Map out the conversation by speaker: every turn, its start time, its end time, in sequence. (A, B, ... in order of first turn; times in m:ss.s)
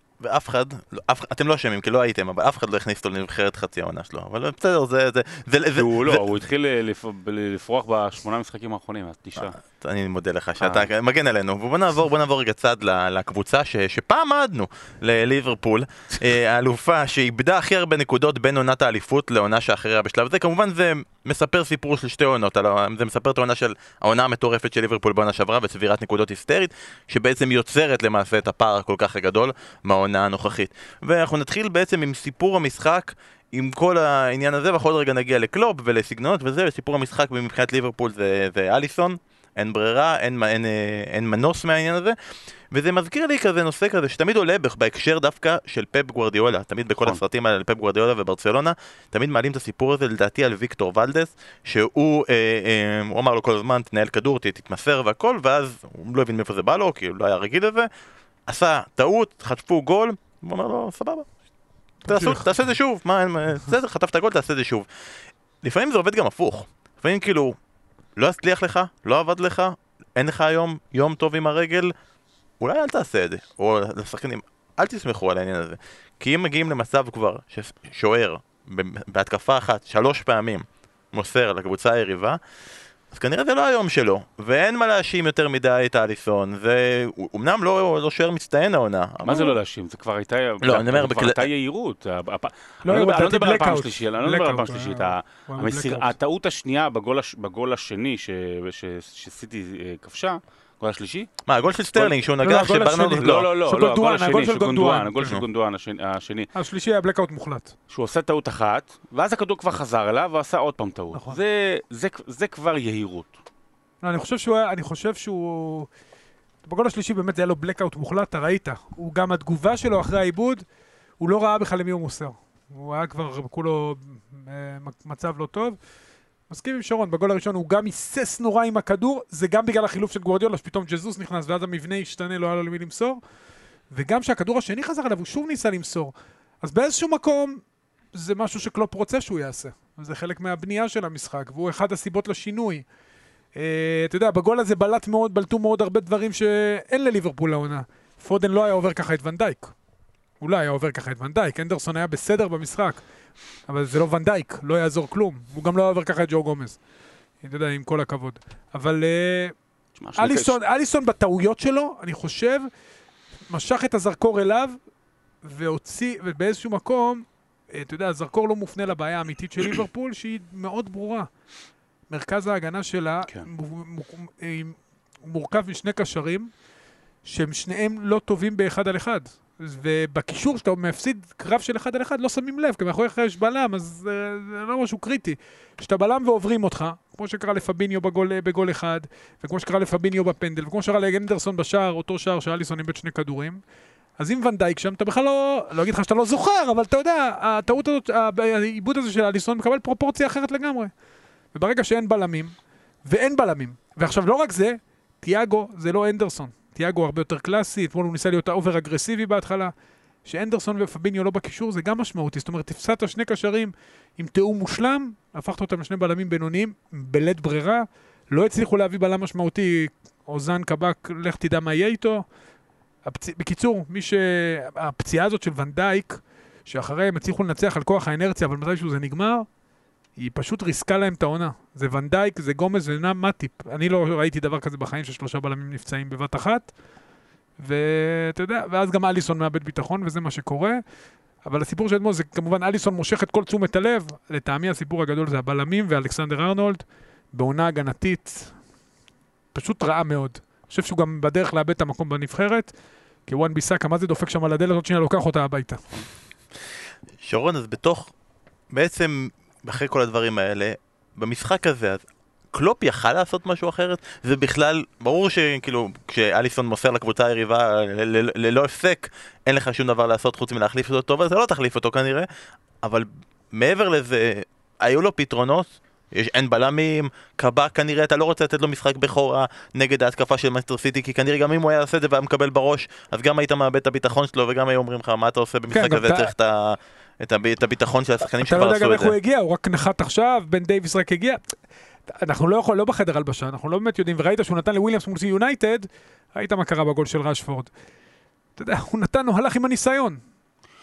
0:00.2-0:06.2 A
0:05.8-0:09.5 B
0:09.4-0:42.2 A
0:10.6-0:10.9 B
0:42.7-0:57.9 A
0:58.5-1:01.3 A
1:02.0-1:02.6 C
1:02.0-1:04.9 A
1:05.6-1:07.6 A
1:08.2-1:11.9 A
1:12.6-1:22.4 A
1:23.1-1:29.6 A
1:29.2-1:41.3 B
1:30.6-1:31.4 A
1:32.8-1:36.1 C
1:41.5-1:43.5 A
1:42.4-1:45.3 C
1:43.2-1:46.5 B
1:46.5-1:47.7 C
1:47.9-1:53.4 B
1:51.1-1:51.4 C
1:54.0-1:55.9 C
1:56.6-2:00.6 C
2:01.2-2:05.8 C
2:06.5-2:13.2 C
2:13.9-2:17.6 C
2:18.1-2:22.8 C
2:23.5-2:29.7 C
2:30.4-2:33.0 C
2:33.7-2:36.8 C
2:37.4-2:39.5 C
2:40.0-2:40.6 B
2:40.2-2:42.7 C
2:43.5-2:44.8 C
2:45.4-2:51.3 C
2:52.1-2:56.5 C
2:57.2-3:13.6 C
3:14.2-3:20.9 C
3:21.5-3:29.7 C
3:30.2-3:42.2 C
3:43.0-3:49.5 C
3:50.2-3:56.7 C
3:57.6-4:00.8 C
4:01.4-4:08.6 C
4:09.5-4:12.7 C
4:13.2-4:15.8 C
4:17.2-4:18.1 A
4:18.7-4:32.3 A
4:32.8-4:49.1 A
4:45.7-4:46.3 C
4:48.4-4:51.5 C
4:52.1-4:57.7 C
4:58.6-5:00.2 C